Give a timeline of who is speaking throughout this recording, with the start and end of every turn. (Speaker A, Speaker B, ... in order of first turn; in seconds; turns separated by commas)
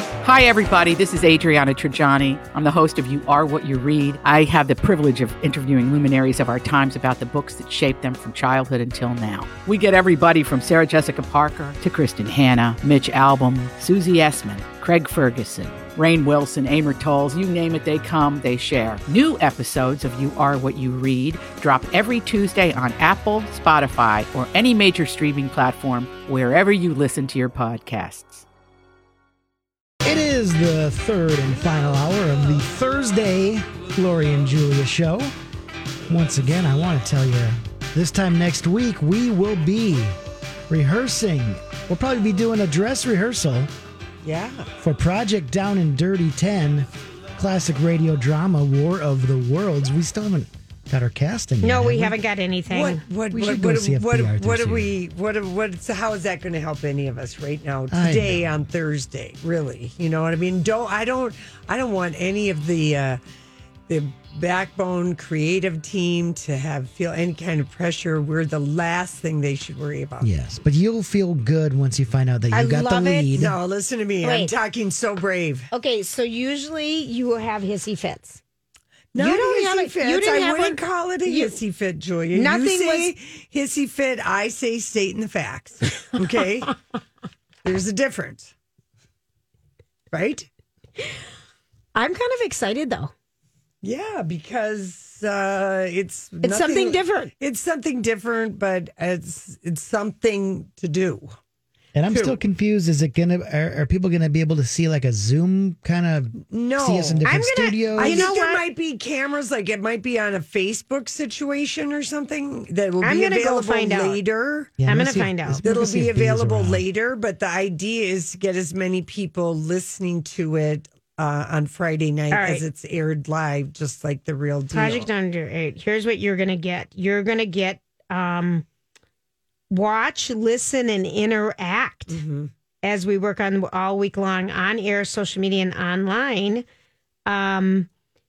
Speaker A: 0.2-28.4, Speaker B: 30.0-35.3, Speaker B: 36.1-40.1, Speaker B: 40.7-43.7, Speaker C: 44.2-44.7, Speaker B: 44.8-52.1, Speaker D: 51.6-53.0, Speaker C: 52.7-63.2, Speaker B: 53.3-54.9, Speaker B: 57.9-58.5, Speaker C: 63.9-70.3, Speaker B: 70.2-73.5, Speaker D: 72.5-73.3, Speaker C: 73.3-75.7, Speaker D: 74.2-74.5, Speaker D: 75.7-78.4, Speaker C: 79.1-86.7, Speaker D: 79.2-81.6, Speaker D: 82.3-83.1, Speaker C: 87.6-88.5, Speaker C: 90.1-90.5, Speaker D: 91.9-93.1, Speaker C: 93.8-101.3, Speaker D: 96.4-97.3, Speaker B: 101.9-108.3, Speaker C: 102.1-102.3, Speaker C: 106.4-107.2, Speaker D: 107.2-108.7, Speaker C: 107.9-114.8, Speaker D: 113.0-114.2, Speaker B: 114.8-116.8, Speaker D: 114.8-115.6, Speaker C: 115.6-125.1, Speaker D: 122.3-122.6, Speaker D: 124.7-128.7, Speaker D: 129.7-132.2, Speaker C: 132.1-132.5, Speaker D: 132.8-136.7, Speaker D: 137.3-137.9